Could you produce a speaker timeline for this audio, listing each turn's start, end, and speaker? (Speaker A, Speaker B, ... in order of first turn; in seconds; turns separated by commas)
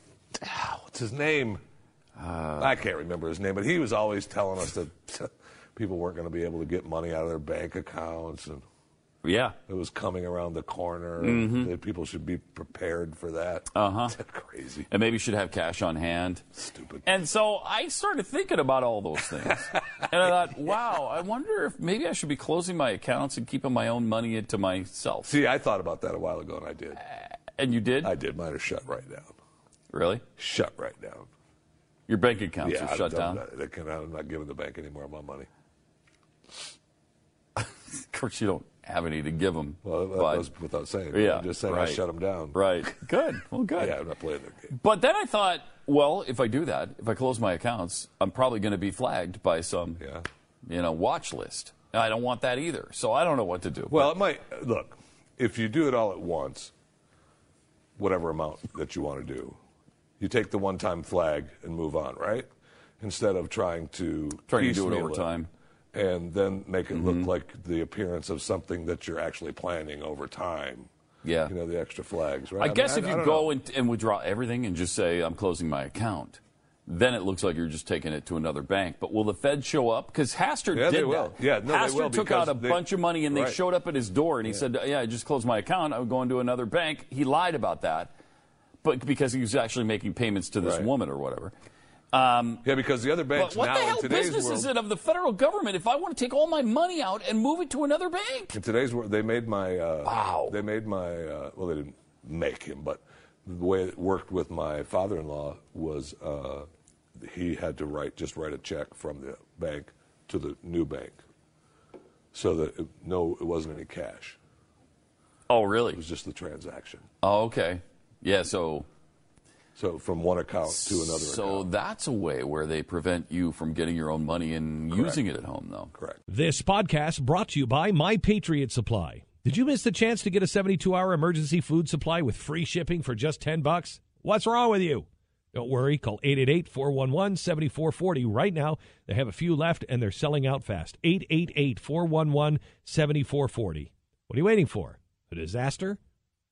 Speaker A: 0.3-1.6, Speaker B: 2.2-2.8, Speaker A: 2.6-8.6, Speaker B: 9.2-9.6, Speaker A: 9.7-14.9, Speaker B: 11.2-11.7, Speaker B: 13.7-14.2, Speaker B: 14.9-16.5, Speaker A: 16.6-17.1, Speaker B: 17.1-25.3, Speaker A: 25.2-27.0, Speaker B: 27.0-28.1, Speaker A: 28.0-29.3, Speaker B: 29.9-30.2, Speaker A: 30.4-31.3, Speaker B: 32.1-33.4, Speaker A: 32.6-35.5, Speaker B: 37.6-40.5, Speaker A: 39.8-42.6, Speaker B: 41.1-42.0, Speaker B: 42.5-44.0, Speaker A: 43.8-44.7, Speaker B: 44.7-50.0, Speaker A: 50.0-50.2, Speaker B: 50.7-54.1, Speaker A: 53.9-56.7, Speaker A: 58.0-59.6, Speaker A: 60.2-62.5, Speaker A: 63.0-65.3, Speaker B: 64.5-65.5, Speaker A: 65.9-70.9, Speaker B: 66.9-67.3, Speaker B: 71.2-71.5, Speaker A: 71.5-73.5, Speaker B: 72.6-88.1, Speaker A: 80.7-83.6, Speaker B: 88.8-91.5, Speaker A: 90.6-90.9, Speaker B: 92.1-92.7, Speaker A: 92.6-94.7, Speaker B: 93.3-98.5, Speaker A: 98.5-111.2, Speaker B: 100.0-100.5, Speaker A: 112.3-114.4, Speaker B: 115.5-116.0, Speaker A: 115.9-117.0, Speaker B: 117.2-118.9, Speaker A: 119.8-121.7, Speaker B: 120.7-125.9, Speaker A: 124.9-125.2, Speaker A: 125.9-126.2, Speaker C: 126.3-146.0